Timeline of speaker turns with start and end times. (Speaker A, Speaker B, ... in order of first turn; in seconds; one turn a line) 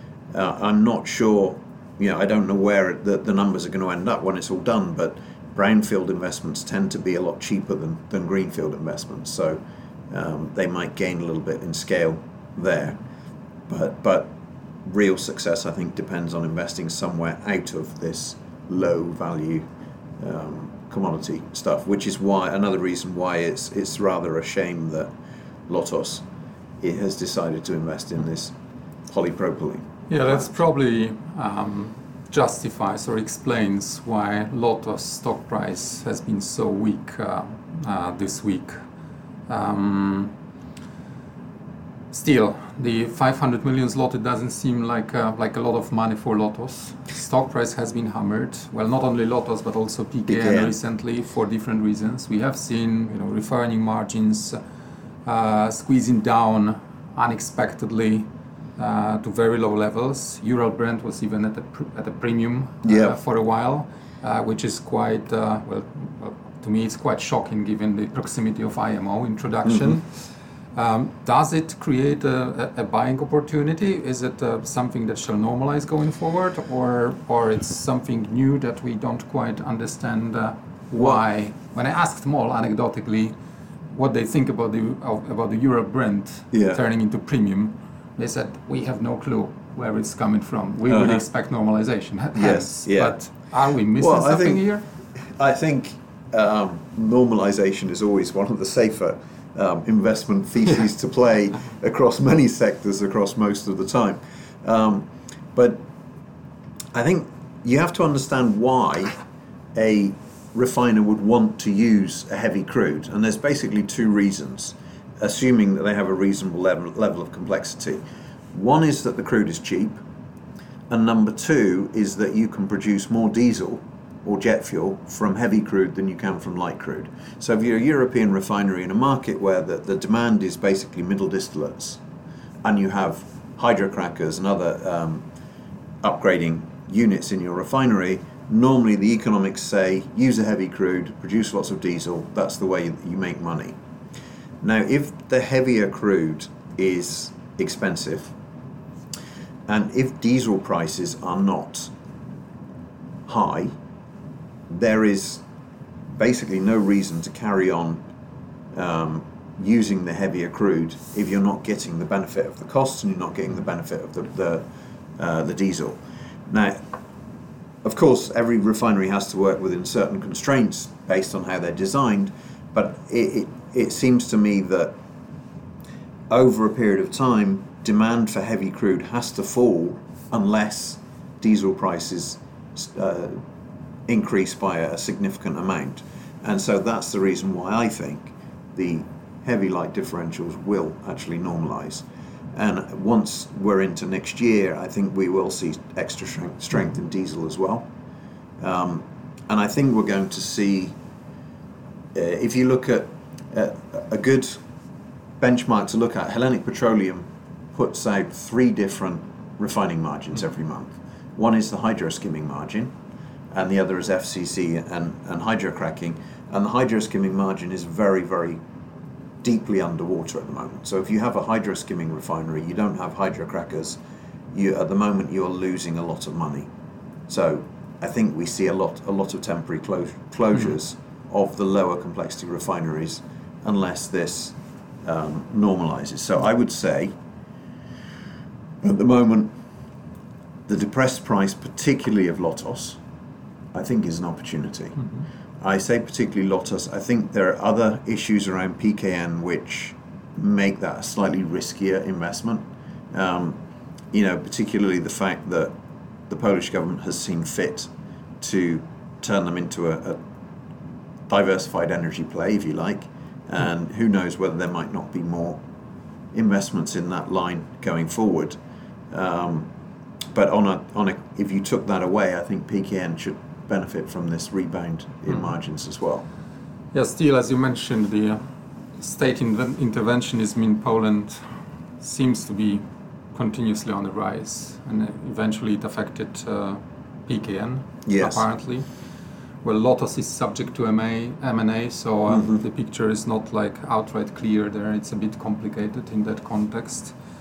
Speaker A: 0.3-13.0
Speaker A: 13.7-14.3
Speaker A: 14.8-19.6
Speaker A: 20.2-25.1
Speaker A: 25.7-26.2
Speaker A: 26.8-28.5
Speaker A: 29.1-29.9
Speaker B: 30.1-38.8
Speaker B: 39.5-40.3
Speaker B: 42.1-54.6
Speaker A: 50.3-50.7
Speaker B: 55.2-83.3
Speaker A: 62.8-63.1
Speaker A: 69.7-70.0
Speaker B: 83.9-94.8
Speaker A: 86.5-86.8
Speaker A: 90.9-91.2
Speaker A: 92.3-105.8
Speaker A: 106.9-109.1
Speaker A: 109.7-120.0
Speaker A: 120.9-132.0
Speaker A: 132.6-135.2
Speaker A: 136.0-143.7
Speaker A: 144.6-148.3
Speaker A: 149.7-151.9
Speaker A: 153.3-153.7
Speaker A: 154.7-155.4
Speaker A: 156.2-158.0
Speaker A: 158.7-164.7
Speaker A: 165.2-166.8
Speaker A: 167.8-174.9
Speaker A: 176.3-183.4
Speaker A: 184.1-197.9
Speaker A: 198.6-200.9
Speaker A: 202.1-204.6
Speaker A: 205.4-212.9
Speaker A: 213.5-218.6
Speaker A: 219.4-224.0
Speaker A: 224.5-226.7
Speaker A: 227.3-237.2
Speaker A: 238.8-239.5
Speaker A: 240.7-243.0
Speaker A: 243.7-245.0
Speaker A: 245.6-253.6
Speaker A: 254.1-255.7
Speaker A: 256.3-257.9
Speaker A: 258.4-260.2
Speaker A: 261.3-265.6
Speaker A: 266.3-268.6
Speaker A: 269.1-269.7
Speaker A: 270.3-276.2
Speaker B: 276.9-278.4
Speaker B: 279.0-288.9
Speaker A: 288.0-288.4
Speaker B: 289.6-297.1
Speaker A: 292.3-292.6